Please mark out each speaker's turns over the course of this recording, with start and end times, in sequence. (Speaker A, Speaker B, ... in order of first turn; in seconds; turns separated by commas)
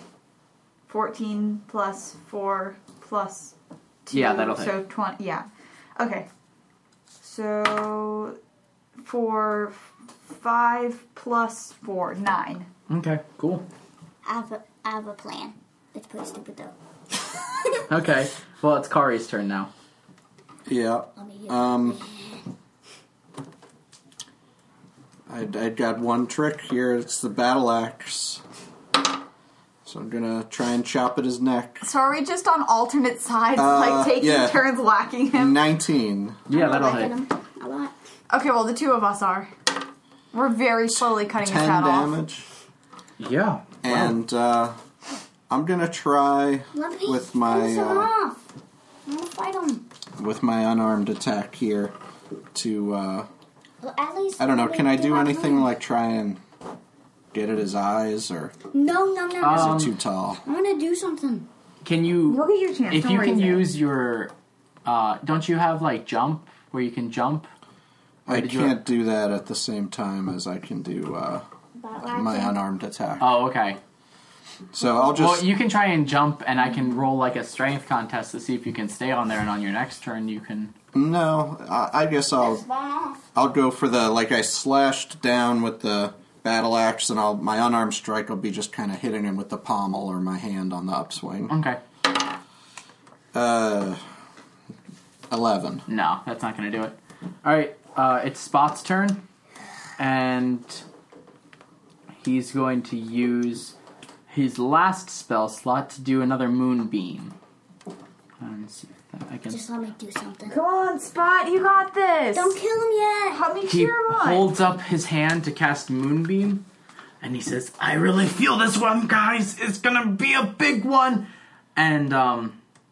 Speaker A: 0.9-3.5, Speaker A: 4.1-6.3, Speaker B: 4.1-4.8, Speaker A: 7.2-8.4, Speaker A: 9.0-9.8, Speaker A: 10.3-12.7, Speaker B: 12.9-13.7, Speaker C: 14.2-16.7, Speaker B: 17.9-19.7, Speaker D: 20.7-22.0, Speaker C: 21.2-22.4, Speaker D: 25.3-28.4, Speaker D: 29.9-31.9, Speaker A: 31.8-35.6, Speaker D: 33.5-34.6, Speaker D: 35.3-36.5, Speaker B: 36.5-37.2, Speaker C: 36.5-37.9, Speaker A: 38.3-39.5, Speaker A: 40.3-42.1, Speaker D: 41.4-42.5, Speaker B: 43.2-44.2, Speaker D: 43.8-44.8, Speaker D: 45.5-48.1, Speaker C: 46.7-48.4, Speaker C: 49.1-49.9, Speaker D: 50.2-51.9, Speaker D: 52.5-53.3, Speaker C: 53.8-55.7, Speaker D: 54.4-56.4, Speaker D: 57.3-58.5, Speaker C: 58.7-59.9, Speaker B: 59.4-59.9, Speaker D: 59.5-60.4, Speaker C: 60.4-61.5, Speaker B: 61.8-64.3, Speaker A: 62.3-63.7, Speaker B: 64.8-67.5, Speaker D: 68.3-71.5, Speaker B: 68.3-68.8, Speaker C: 71.8-72.6, Speaker D: 72.1-73.3, Speaker B: 73.2-73.8, Speaker D: 74.7-75.5, Speaker B: 75.1-80.7, Speaker D: 80.9-82.6, Speaker C: 82.4-83.2, Speaker D: 83.3-91.5, Speaker B: 91.5-91.8, Speaker D: 93.3-94.0, Speaker D: 95.3-95.8, Speaker B: 95.9-99.2, Speaker B: 100.0-100.8, Speaker B: 102.2-103.8, Speaker B: 104.3-107.3, Speaker B: 108.4-109.6, Speaker C: 109.5-110.6, Speaker A: 110.5-112.6, Speaker C: 112.3-113.4, Speaker A: 113.3-114.5, Speaker B: 113.7-116.6, Speaker B: 117.2-122.6